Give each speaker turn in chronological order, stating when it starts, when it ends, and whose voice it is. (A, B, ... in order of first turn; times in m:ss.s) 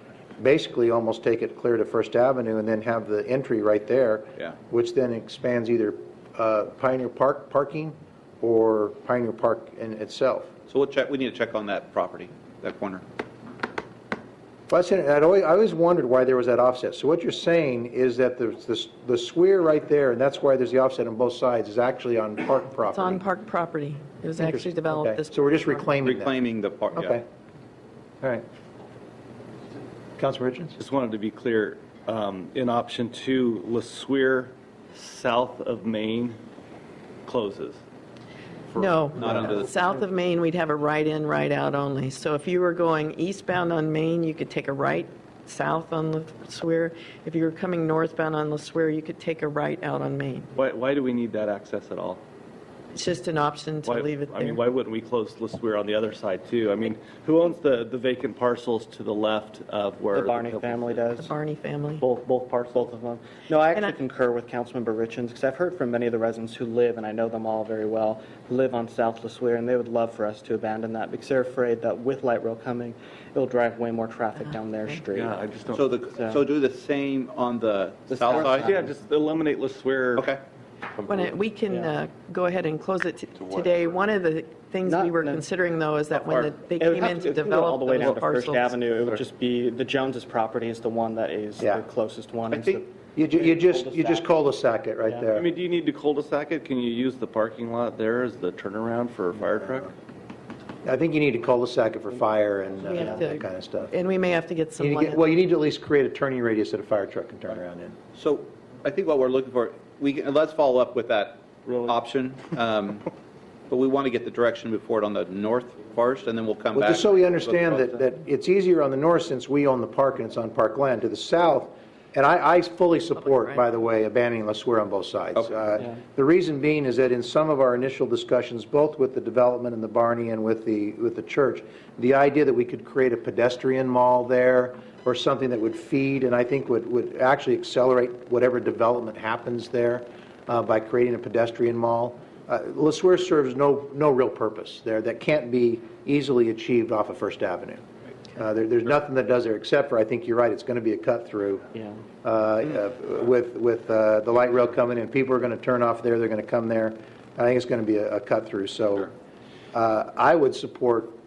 0:00.4-0:10.5 A
0:10.7-0:13.0 B
0:14.7-0:23.2 A
0:22.9-0:26.0 C
0:24.4-0:26.4 A
0:26.0-0:27.2 B
0:27.0-0:27.2 A
0:30.2-0:30.8 A
0:30.8-0:36.4 D
0:37.3-0:37.8 D
0:38.7-0:39.5 A
0:38.8-0:50.5 C
0:39.2-0:39.7 B
0:50.6-0:52.2 D
0:52.9-0:54.6 C
0:53.8-1:01.1 D
1:00.1-1:01.3 E
1:01.2-1:02.0 C
1:02.3-1:15.4 E
1:15.1-1:16.0 D
1:15.7-1:18.7 B
1:16.2-1:16.4 E
1:18.1-1:20.3 D
1:20.9-1:21.3 D
1:21.1-1:28.8 C
1:24.8-1:25.4 E
1:26.2-1:34.3 E
1:32.5-1:32.8 B
1:33.2-1:35.5 A
1:35.3-1:39.9 D
1:40.8-1:43.9 A
1:42.8-1:45.2 C
1:44.8-1:48.0 A
1:48.2-1:53.1 B
1:51.7-1:52.0 D
1:53.7-1:58.0 B
1:56.8-2:27.8 A
2:03.2-2:03.6 C
2:05.4-2:05.6 B
2:28.3-2:31.6 A
2:32.2-2:39.1 A
2:39.7-2:41.2 A